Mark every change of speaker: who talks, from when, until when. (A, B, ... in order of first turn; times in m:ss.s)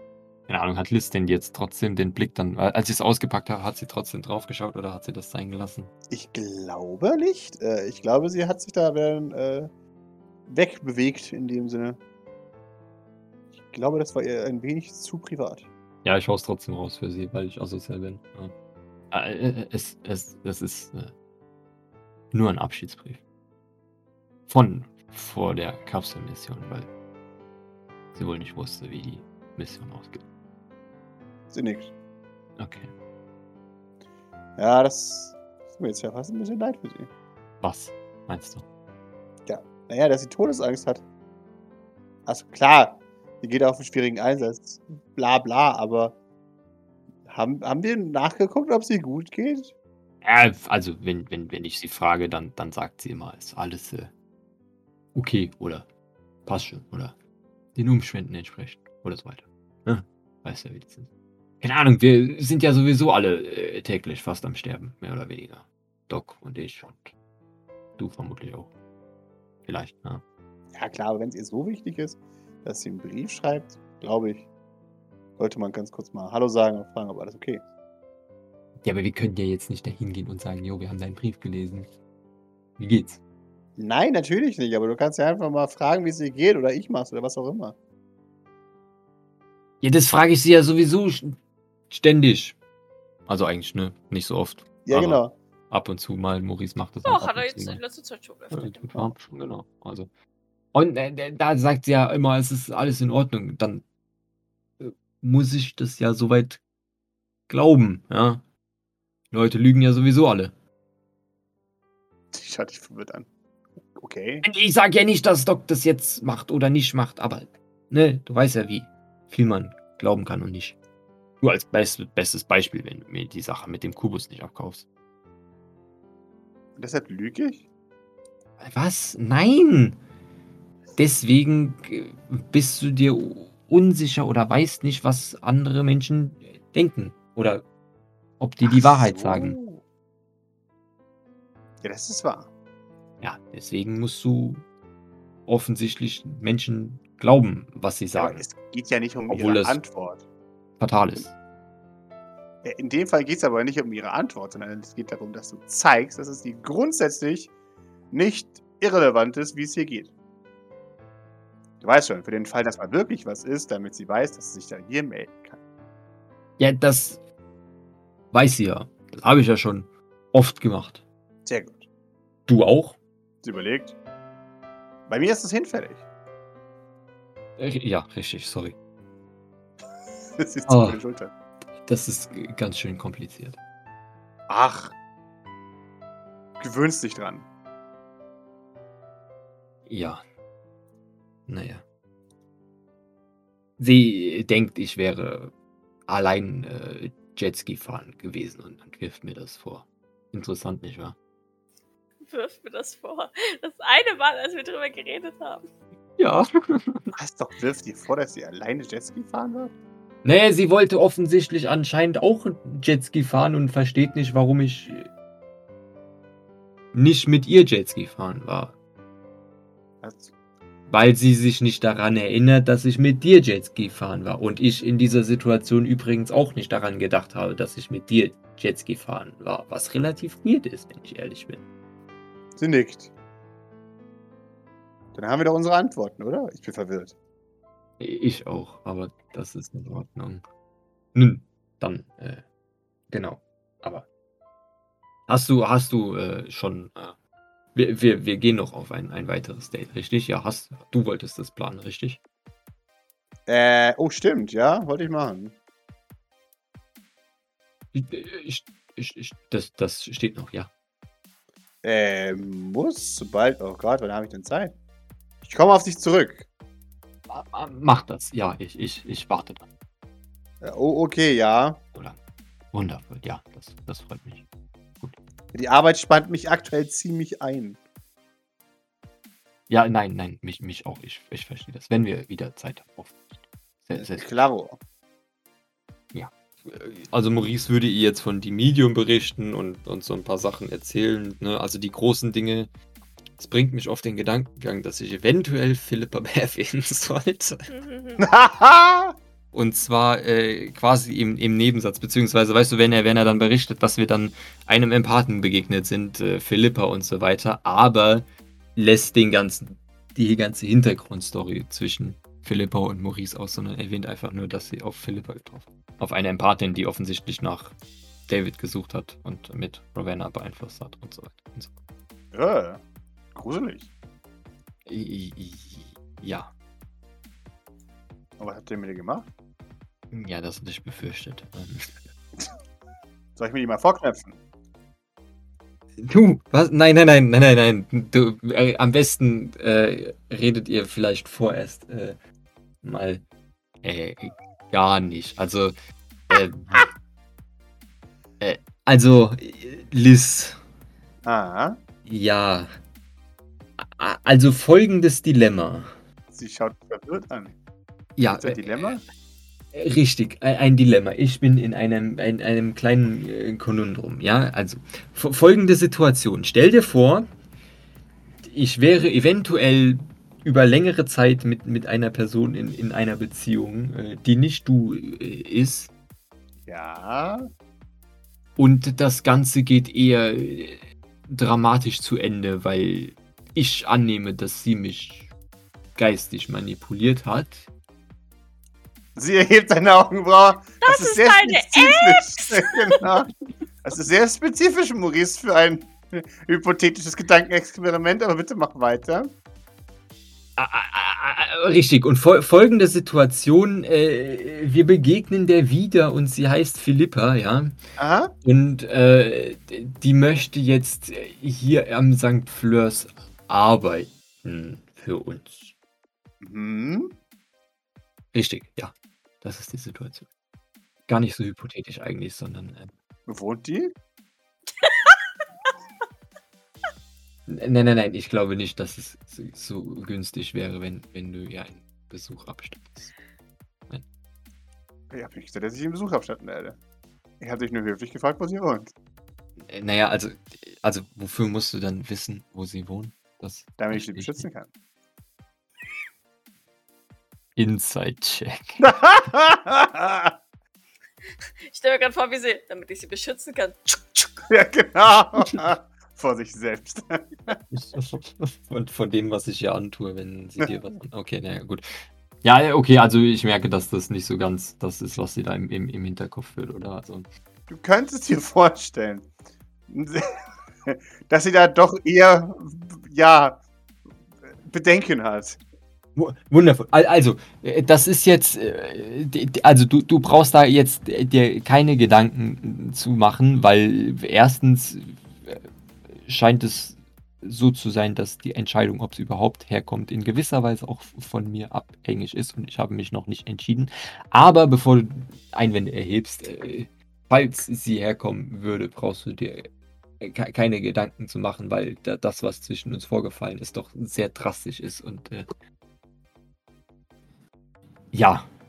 0:00.5-0:05.9 A
0:06.1-0:09.7 B
0:10.5-0:12.0 B
0:13.6-0:15.7 B
0:16.0-0:18.5 A
0:19.1-0:21.1 A
0:22.3-0:23.2 A
0:24.5-0:26.9 A
0:28.1-0:30.2 A
0:31.5-0:31.9 B
0:32.6-0:32.9 A
0:34.6-0:37.1 B
0:37.6-0:38.6 A
0:39.5-0:41.0 B
0:42.2-0:46.2 B
0:47.2-0:49.7 B
0:50.2-0:54.1 A
0:55.1-0:55.8 A
0:56.4-0:57.1 A
0:57.7-1:01.1 A
1:01.6-1:07.1 A
1:08.0-1:08.7 A
1:09.6-1:10.2 A
1:10.7-1:14.5 B
1:15.4-1:17.6 B
1:18.8-1:21.9 A
1:22.8-1:23.2 A
1:23.8-1:27.8 B
1:29.8-1:31.4 A
1:31.9-1:32.6 A
1:33.3-1:37.8 A
1:34.8-1:35.4 B
1:37.0-1:39.1 C
1:38.5-1:40.1 A
1:40.7-1:43.8 A
1:44.8-1:46.6 A
1:47.5-1:48.4 A
1:49.3-1:50.5 A
1:52.3-1:53.3 B
1:53.9-1:54.4 B
1:54.4-2:00.8 A
2:01.4-2:04.8 A
2:06.8-2:07.6 B
2:08.6-2:10.0 A
2:11.0-2:17.6 A
2:18.4-2:19.6 A
2:18.6-2:19.8 B
2:21.8-2:22.5 B
2:23.2-2:24.6 A
2:25.5-2:28.4 A
2:28.1-2:30.2 B
2:29.3-2:29.8 A
2:30.8-2:31.3 A
2:32.6-2:37.5 B
2:38.1-2:40.1 B
2:41.8-2:45.6 B
2:46.6-2:47.2 A
2:48.3-2:51.0 A
2:51.4-2:51.9 B
2:52.5-2:53.0 A
2:53.4-2:53.9 B
2:55.1-2:56.0 B
2:57.6-2:58.7 A
3:00.4-3:01.3 B
3:00.7-3:01.0 A
3:01.8-3:03.6 A
3:04.5-3:04.9 B
3:06.6-3:07.4 B
3:09.9-3:10.2 A
3:11.5-3:11.8 A
3:13.8-3:15.5 A
3:16.1-3:21.2 A
3:22.2-3:25.7 C
3:26.2-3:27.1 A
3:27.1-3:29.7 B
3:30.2-3:35.1 A
3:36.9-3:38.8 A
3:40.0-3:40.3 B
3:40.9-3:51.6 A
3:52.6-3:53.1 B
3:55.1-3:57.1 B
3:58.0-4:00.4 A
4:01.1-4:02.4 A
4:03.1-4:04.0 A
4:05.3-4:07.1 A
4:07.7-4:12.2 A
4:13.5-4:15.6 B
4:17.9-4:20.7 A
4:21.8-4:24.7 B
4:25.4-4:26.5 B
4:27.3-4:29.6 A
4:30.6-4:31.8 B
4:32.7-4:34.4 A
4:35.5-4:37.8 B
4:39.7-4:44.2 A
4:44.0-4:44.8 B
4:46.1-4:52.7 A
4:53.4-4:57.7 A
4:57.7-4:58.3 C
4:58.2-4:59.1 B
4:59.5-5:17.7 A
5:18.3-5:21.7 A
5:22.3-5:22.8 B
5:23.3-5:23.9 B
5:24.8-5:26.5 A
5:28.4-5:29.3 B
5:30.1-5:32.1 A
5:33.4-5:34.4 B
5:36.0-5:42.2 A
5:42.8-5:43.2 A
5:43.8-5:45.7 A
5:46.3-5:46.8 A
5:48.4-5:50.6 A
5:51.2-5:51.8 B
5:52.0-5:52.7 A
5:53.8-5:56.0 A
5:56.3-5:57.5 B
5:58.2-5:59.0 A
5:58.3-5:59.0 B
5:59.7-6:07.3 A
6:08.4-6:15.9 A
6:16.7-6:17.5 B
6:18.6-6:25.3 A
6:26.0-6:27.7 A
6:29.2-6:33.3 B
6:30.8-6:33.0 C
6:33.8-6:39.3 B
6:40.6-6:47.8 A
6:48.0-6:48.3 B
6:48.4-6:55.7 A
6:56.4-6:57.2 B
6:58.3-7:00.2 A
7:01.1-7:02.9 A
7:03.3-7:03.9 B
7:04.8-7:05.1 C
7:07.5-7:13.1 A
7:15.1-7:16.8 B
7:17.4-7:18.9 B
7:19.6-7:24.4 A
7:23.8-7:24.7 B
7:27.6-7:28.8 A
7:28.8-7:30.4 B
7:31.6-7:34.3 C
7:34.5-7:37.6 B
7:37.7-7:41.8 A
7:42.4-7:47.3 A
7:47.7-7:49.3 B
7:49.9-7:53.6 B
7:54.5-7:55.6 B
7:56.2-8:25.5 A
8:28.1-8:28.5 A